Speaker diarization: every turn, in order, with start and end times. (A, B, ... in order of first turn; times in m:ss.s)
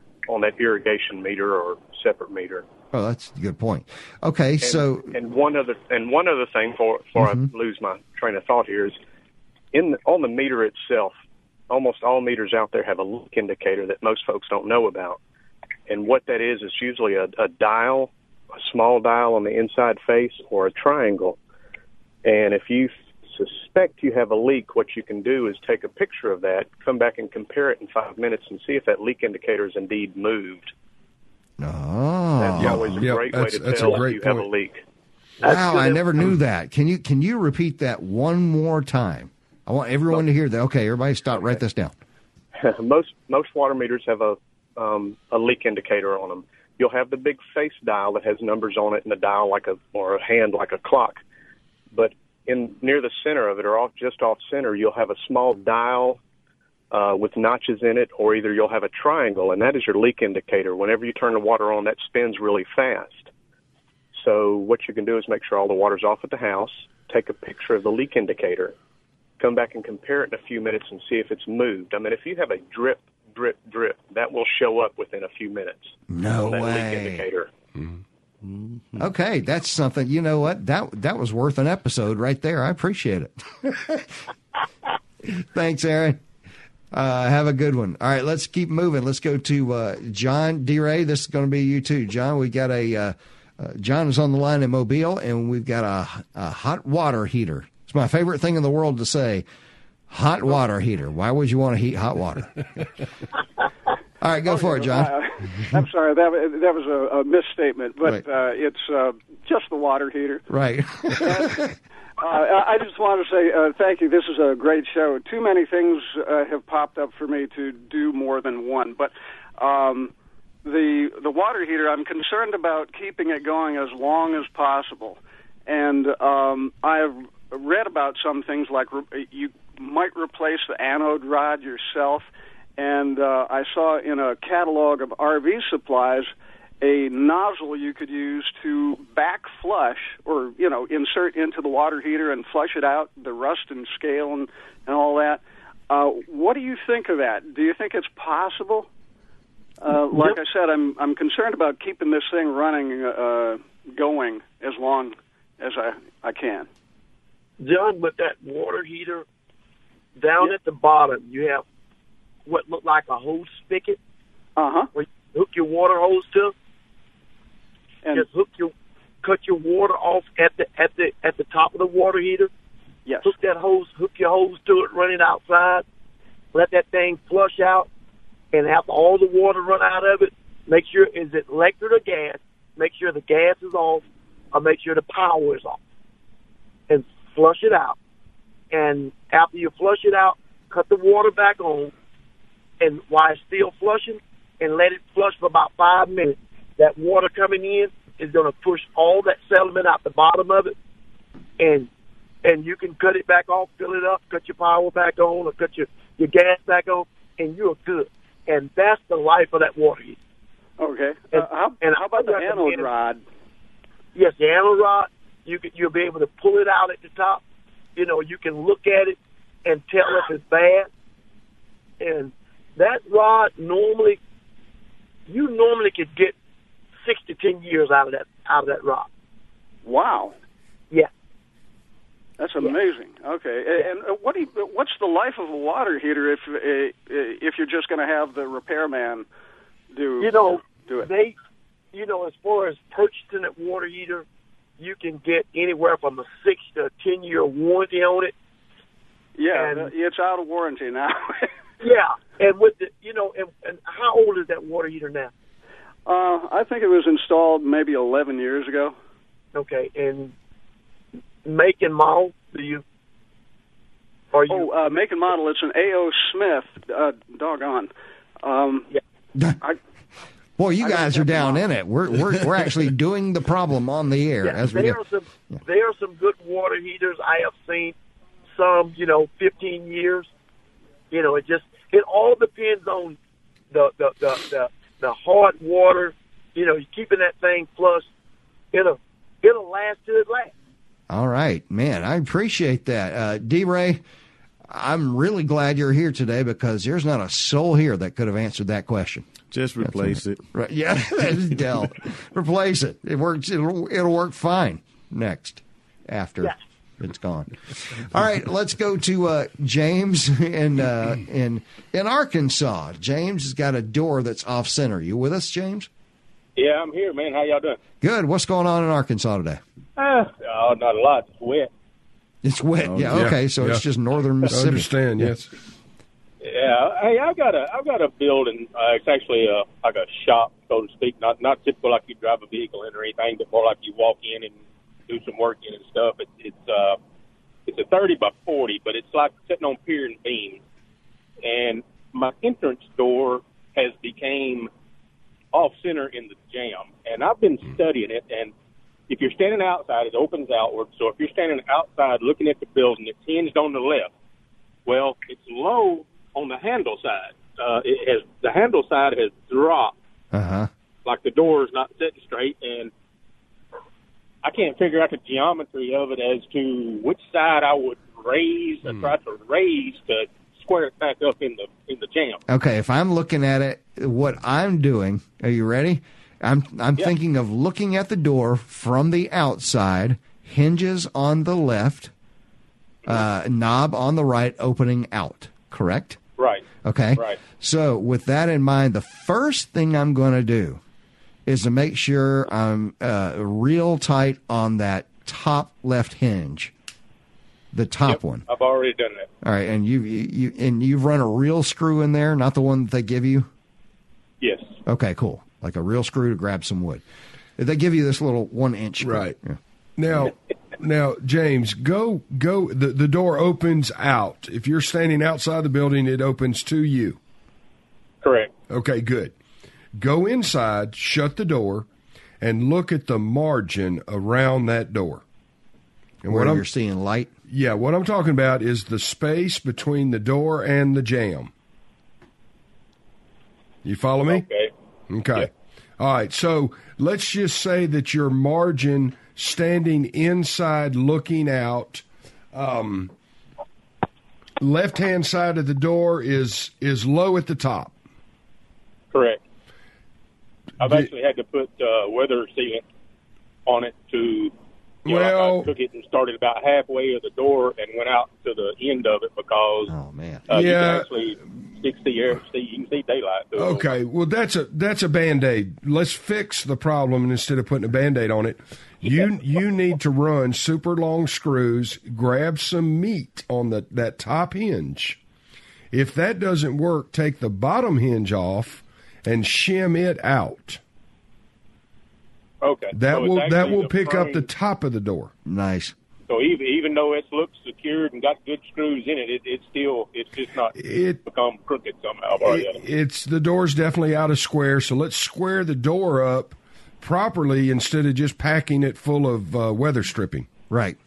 0:00.3-0:02.7 A
0:02.9-0:05.1 B
0:04.6-0:09.0 A
0:07.2-0:07.5 B
0:09.7-0:11.2 A
0:11.7-0:15.2 A
0:15.9-0:21.4 A
0:22.2-0:30.7 A
0:31.6-0:33.0 B
0:32.4-0:34.8 A
0:32.6-0:34.5 C
0:35.4-0:36.0 D
0:35.4-0:42.0 B
0:42.6-0:51.2 A
0:51.9-0:56.2 A
0:56.9-1:03.3 A
1:04.1-1:08.8 A
1:09.4-1:17.5 A
1:16.1-1:17.2 B
1:18.4-1:19.1 E
1:19.0-1:24.2 B
1:25.2-1:26.2 B
1:26.9-1:39.5 B
1:40.1-1:42.6 B
1:44.2-1:45.2 B
1:44.5-1:50.4 F
1:50.5-1:51.8 B
1:51.1-1:51.7 F
1:52.2-2:00.1 F
2:00.6-2:28.9 F
2:29.8-2:36.7 F
2:30.1-2:30.4 D
2:37.6-2:39.2 D
2:40.2-2:41.6 D
2:42.5-2:44.0 D
2:44.6-2:44.9 F
2:44.9-2:46.5 D
2:48.1-2:52.5 D
2:53.1-2:53.3 F
2:53.2-2:55.8 D
2:56.5-2:57.9 D
2:58.5-3:05.8 D
3:06.9-3:08.0 D
3:08.7-3:11.9 D
3:12.8-3:20.7 D
3:21.6-3:21.9 D
3:22.4-3:30.2 D
3:30.8-3:33.2 F
3:31.3-3:32.9 D
3:34.2-3:37.4 D
3:38.0-3:40.9 D
3:42.0-3:44.2 D
3:45.3-3:46.4 D
3:47.0-3:49.1 D
3:49.8-3:50.4 F
3:52.4-3:59.3 F
3:59.9-4:01.1 F
4:00.2-4:01.4 D
4:01.9-4:04.3 D
4:04.8-4:08.3 D
4:09.4-4:11.5 F
4:09.5-4:09.9 D
4:11.8-4:15.3 D
4:16.1-4:19.0 F
4:19.5-4:20.3 D
4:21.4-4:22.8 D
4:24.3-4:25.1 D
4:24.5-4:27.9 F
4:28.4-4:28.9 F
4:30.6-4:35.0 B
4:30.8-4:31.6 D
4:34.4-4:38.0 D
4:38.6-4:40.3 D
4:41.1-4:43.2 D
4:43.7-4:48.1 D
4:48.7-4:50.5 D
4:51.1-4:54.0 B
4:54.7-4:59.3 B
4:59.5-5:00.4 E
4:59.8-5:15.9 B
5:16.6-5:17.8 G
5:18.0-5:19.6 B
5:20.0-5:21.7 G
5:22.4-5:25.3 B
5:22.8-5:23.3 E
5:23.1-5:23.8 C
5:24.5-5:25.5 C
5:26.4-5:34.5 G
5:35.1-5:37.0 G
5:37.7-5:40.6 G
5:41.4-5:44.7 G
5:45.5-5:48.5 G
5:49.1-5:54.1 G
5:54.9-6:00.0 G
6:00.3-6:00.7 B
6:01.0-6:02.9 G
6:04.4-6:12.4 G
6:12.5-6:22.1 B
6:23.1-6:26.2 B
6:26.4-6:26.6 G
6:26.8-6:30.8 B
6:27.2-6:27.4 G
6:31.5-6:36.7 B
6:37.7-6:38.4 B
6:38.0-6:39.3 G
6:39.4-6:43.5 B
6:44.4-6:44.7 G
6:44.9-6:47.0 B
6:47.6-6:49.6 B
6:49.0-6:49.4 C
6:50.0-6:57.2 C
6:58.2-6:58.5 G
6:58.7-6:59.3 C
7:00.0-7:01.9 C
7:02.4-7:05.2 C
7:06.2-7:07.3 B
7:06.3-7:06.6 C
7:07.5-7:11.5 C
7:13.8-7:14.4 C
7:14.3-7:14.7 G
7:15.1-7:23.1 C
7:24.6-7:27.9 C
7:29.1-7:29.4 G
7:30.8-7:32.8 G
7:33.7-7:34.5 G
7:35.0-7:39.9 G
7:35.1-7:35.7 C
7:39.9-7:40.4 B
7:40.5-7:43.9 G
7:40.5-7:41.1 C
7:43.6-7:55.2 C
7:55.9-8:00.8 C
8:02.6-8:04.5 G
8:02.9-8:05.3 C
8:05.5-8:06.0 B
8:06.3-8:10.7 G
8:10.7-8:11.2 C
8:11.2-8:12.8 G
8:12.4-8:20.5 C
8:20.7-8:21.0 B